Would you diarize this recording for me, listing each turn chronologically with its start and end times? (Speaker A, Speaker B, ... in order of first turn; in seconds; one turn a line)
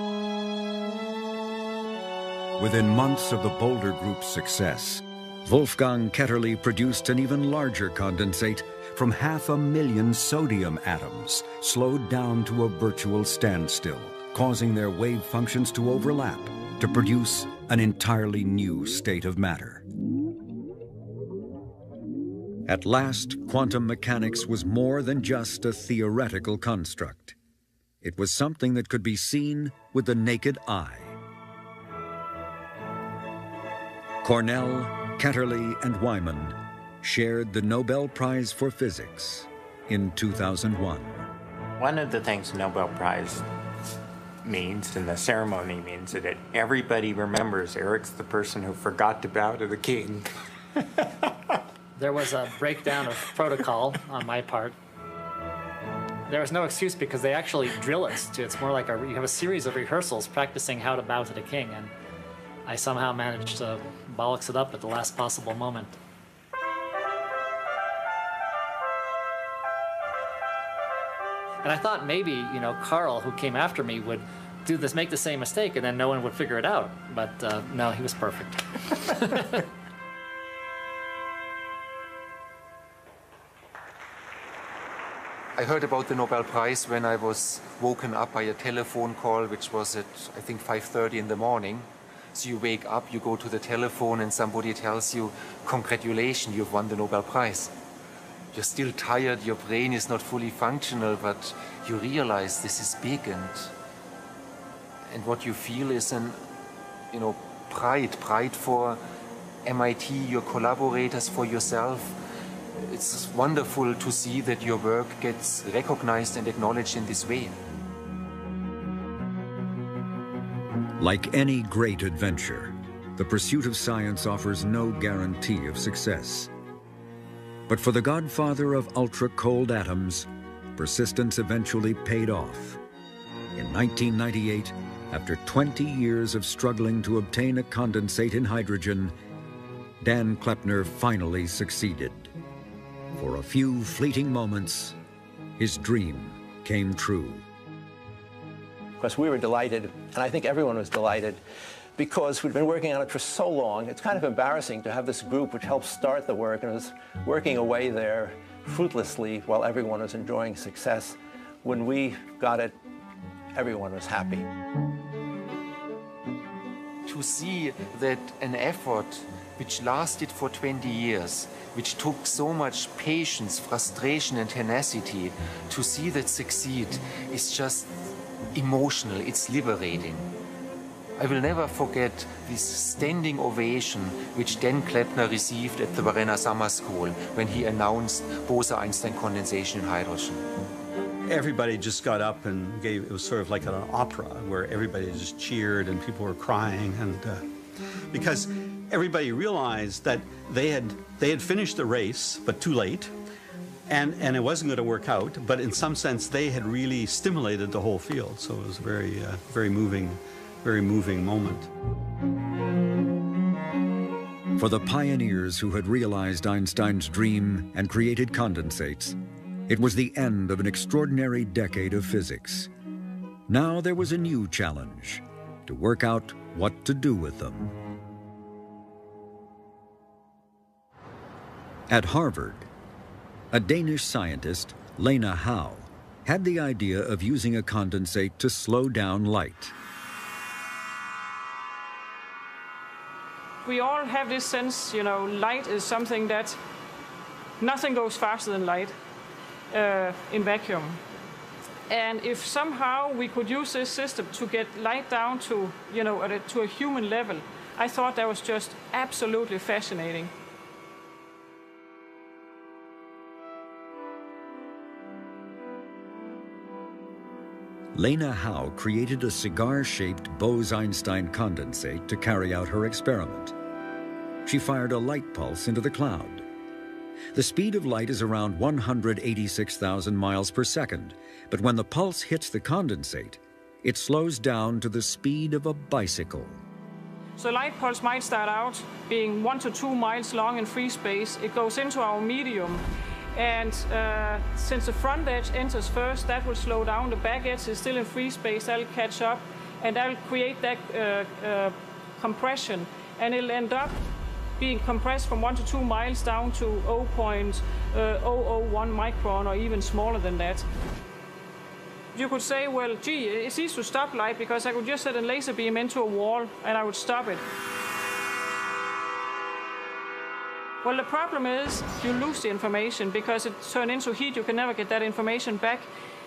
Speaker A: 2.6-19.8
Speaker A: 22.6-27.4
Speaker A: 28.0-31.1
Speaker A: 34.2-41.2
Speaker B: 41.8-43.4
Speaker B: 44.4-50.3
Speaker C: 52.0-54.8
Speaker C: 56.3-61.9
Speaker C: 62.6-66.0
Speaker C: 71.6-79.6
Speaker D: 85.5-97.7
Speaker D: 98.5-103.7
Speaker D: 105.1-106.4
Speaker D: 107.1-109.0
Speaker D: 109.6-112.2
Speaker D: 112.7-117.6
Speaker A: 121.0-126.5
Speaker A: 127.7-132.8
Speaker A: 133.5-139.1
Speaker A: 140.0-142.3
Speaker A: 143.2-144.9
Speaker A: 145.6-147.4
Speaker E: 149.0-151.4
Speaker E: 152.0-162.8
Speaker E: 163.5-164.5
Speaker D: 167.0-177.9
Speaker D: 178.5-180.3
Speaker D: 181.2-190.4
Speaker F: 191.2-197.4
Speaker F: 198.1-203.1
Speaker F: 203.9-211.7
Speaker A: 214.6-222.7
Speaker A: 223.5-227.7
Speaker A: 231.9-232.7
Speaker A: 233.5-239.7
Speaker G: 243.6-246.6
Speaker G: 247.6-248.9
Speaker G: 249.7-251.0
Speaker G: 251.9-260.3
Speaker A: 267.9-273.5
Speaker A: 274.4-276.4
Speaker A: 277.3-286.6
Speaker G: 287.4-304.0
Speaker G: 304.6-310.6
Speaker G: 312.1-317.4
Speaker G: 320.8-325.9